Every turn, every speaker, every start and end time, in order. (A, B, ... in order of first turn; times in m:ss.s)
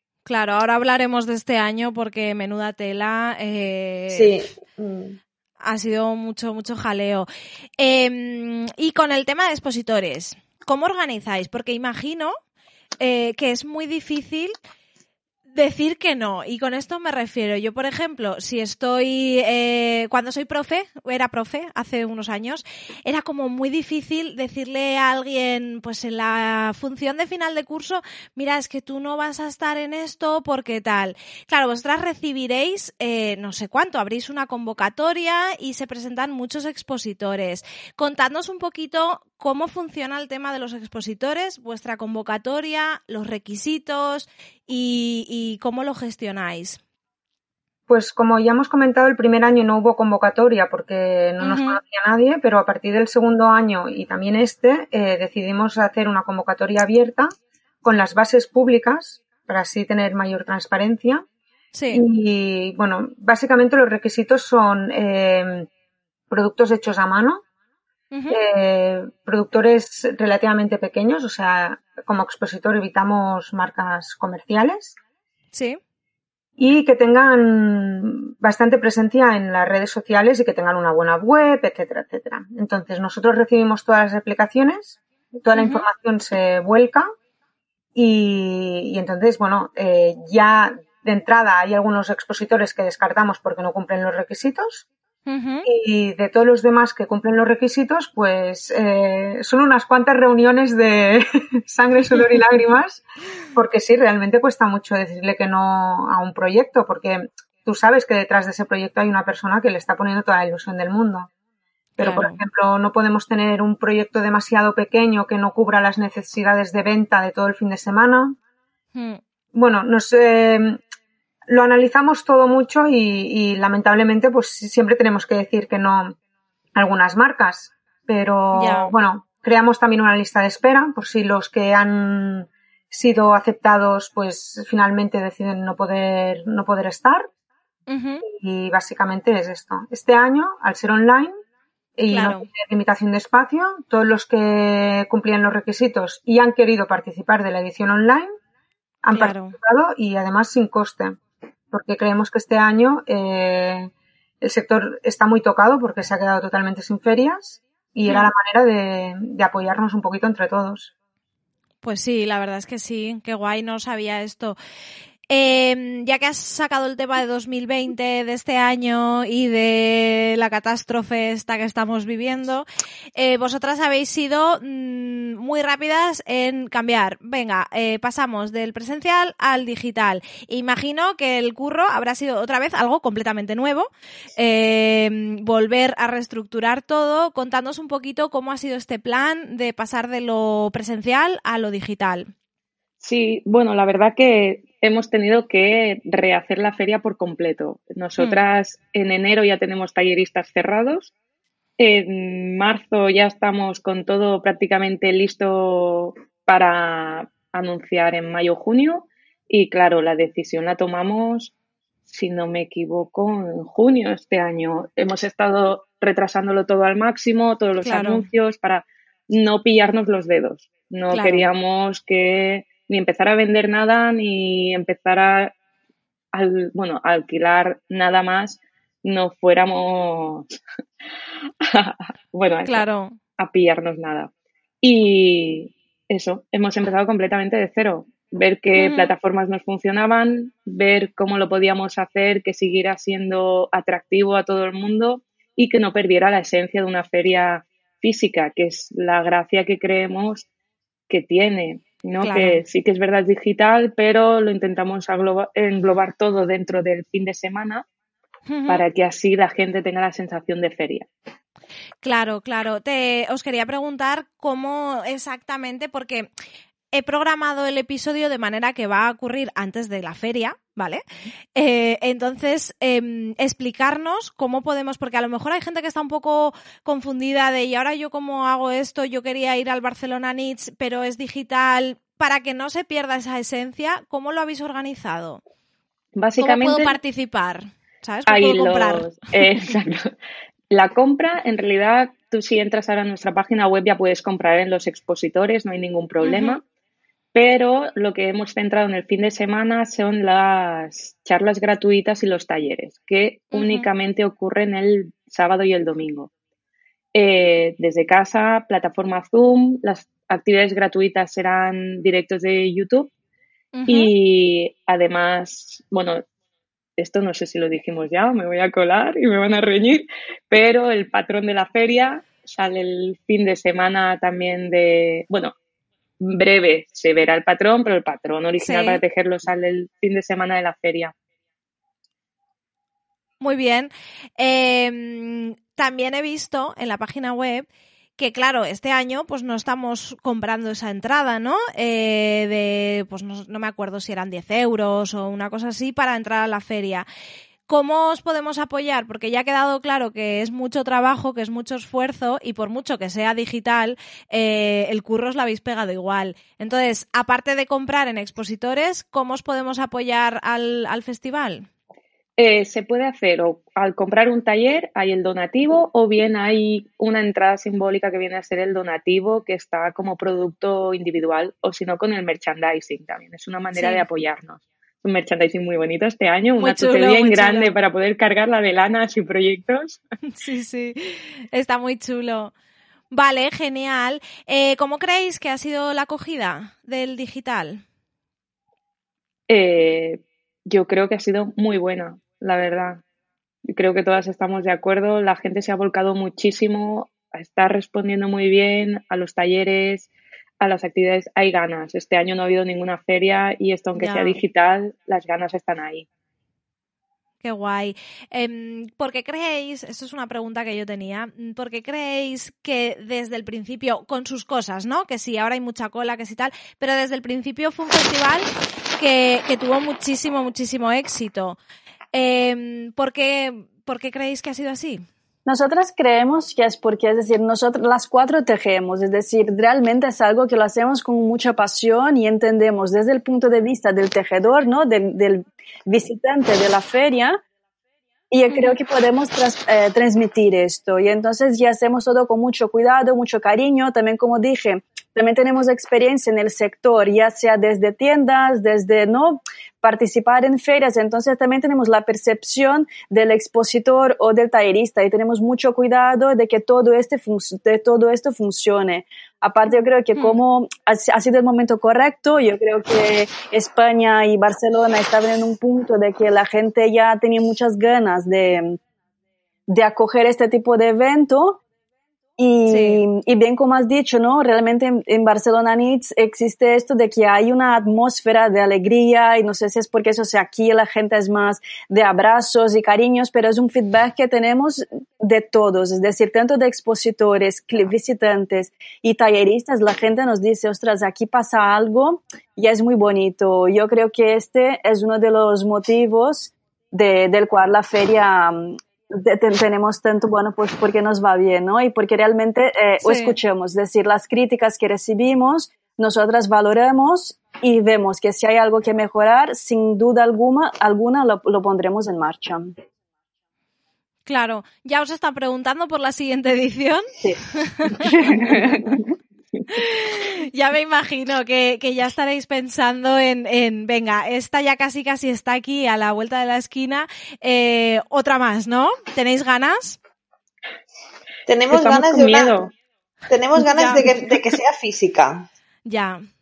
0:00.3-0:04.3 A
0:04.1-0:05.2 B
0:05.6-0:07.2 A
0:07.8-0:12.4 A
0:13.0-0:14.5 A
0:15.5-0:46.8 A
0:47.9-0:57.3 C
0:51.4-0:51.8 A
0:57.8-1:01.2 C
1:01.7-1:02.0 A
1:01.9-1:05.7 C
1:06.3-1:07.4 C
1:08.1-1:08.4 A
1:08.3-1:15.0 C
1:15.5-1:15.8 A
1:16.6-1:27.0 C
1:25.5-1:25.8 A
1:27.9-1:34.9 C
1:35.3-1:35.6 A
1:35.6-1:51.3 C
1:52.0-1:58.4 C
1:52.0-1:52.4 A
1:58.9-1:59.2 A
1:59.5-2:00.8 C
2:01.5-2:06.1 C
2:06.7-2:17.3 C
2:08.5-2:08.9 A
2:17.9-2:18.2 A
2:18.3-2:21.4 C
2:22.0-2:28.3 C
2:22.1-2:22.5 A
2:29.0-2:31.2 C
2:29.1-2:29.6 A
2:31.7-2:40.9 C
2:38.1-2:38.3 A
2:41.8-2:44.6 A
2:45.3-2:52.6 A
2:53.2-3:12.3 A
3:13.0-3:21.1 D
3:21.8-3:31.5 D
3:32.1-3:45.5 D
3:37.8-3:38.3 A
3:41.1-3:41.5 A
3:46.3-3:50.5 D
3:51.6-3:52.8 D
3:52.6-3:53.2 A
3:53.4-3:54.3 D
3:54.8-4:10.5 D
3:58.8-3:59.1 A
4:11.1-4:17.8 D
4:12.2-4:12.6 A
4:18.5-4:18.8 A
4:18.7-4:21.1 D
4:22.0-4:26.3 A
4:26.9-4:31.0 A
4:31.5-4:45.4 A
4:46.2-4:47.0 D
4:46.4-4:49.1 A
4:48.3-4:50.1 D
4:50.7-4:56.6 D
4:56.2-4:56.6 A
4:57.3-5:06.3 D
5:03.5-5:03.9 A
5:07.1-5:13.1 D
5:13.7-5:14.1 A
5:13.9-5:16.2 D
5:17.0-5:25.5 D
5:26.2-5:31.1 D
5:28.6-5:29.0 A
5:33.4-5:37.7 A
5:38.2-5:47.0 A
5:47.7-6:01.7 A
6:02.4-6:20.0 D
6:13.7-6:14.0 A
6:16.6-6:17.7 A
6:20.4-6:22.5 A
6:23.1-6:27.8 A
6:29.5-6:33.0 D
6:33.7-6:40.1 D
6:40.6-6:46.0 D
6:44.0-6:44.4 A
6:47.4-7:01.6 A
7:02.1-7:05.0 A
7:05.4-7:17.4 E
7:18.3-7:48.8 E
7:49.7-7:51.6 E
7:52.4-8:32.7 E
7:52.7-7:53.0 A
8:23.0-8:23.3 A
8:34.3-8:38.6 A
8:37.2-8:39.1 E
8:39.7-8:50.0 A
8:51.5-8:52.7 B
8:51.7-8:52.7 D
8:53.3-8:55.4 B
8:53.6-8:54.0 A
8:55.9-8:56.2 A